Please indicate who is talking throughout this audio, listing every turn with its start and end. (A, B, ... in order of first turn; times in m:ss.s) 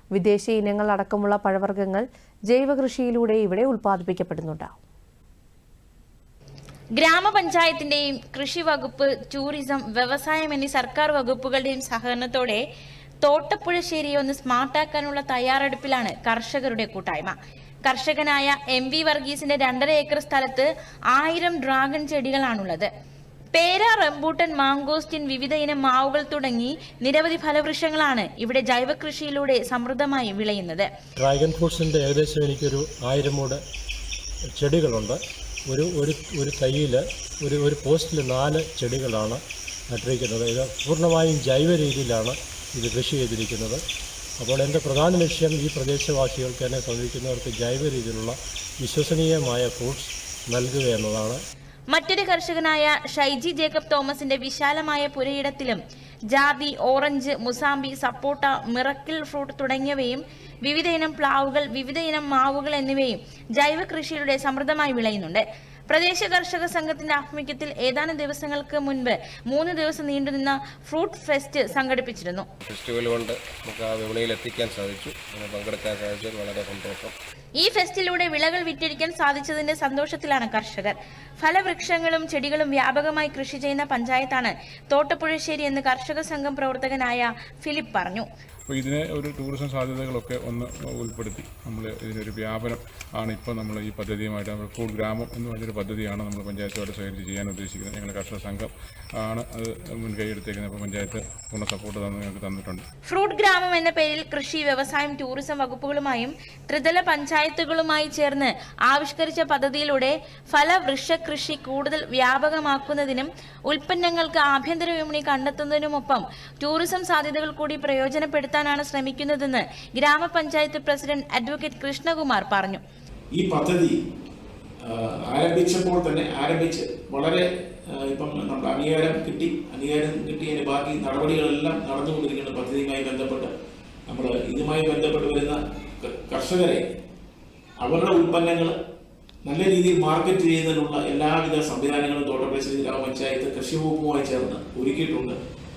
0:00.1-0:04.8 A
0:07.0-0:12.6 B
0:13.2-0:22.9 B
0:23.5-0:30.9 B
0:31.2-0:33.6 C
0:34.5-0:43.8 C
0:44.4-0:51.4 C
0:51.9-0:55.8 B
0:56.3-1:12.4 B
1:12.6-1:17.1 D
1:17.6-1:28.2 B
1:28.7-1:38.7 E
1:39.2-1:42.8 E
1:43.1-2:02.8 B
2:03.3-2:03.9 F
2:04.8-2:13.5 F
2:14.1-2:16.8 F
2:17.8-2:18.7 F
2:19.4-2:25.4 F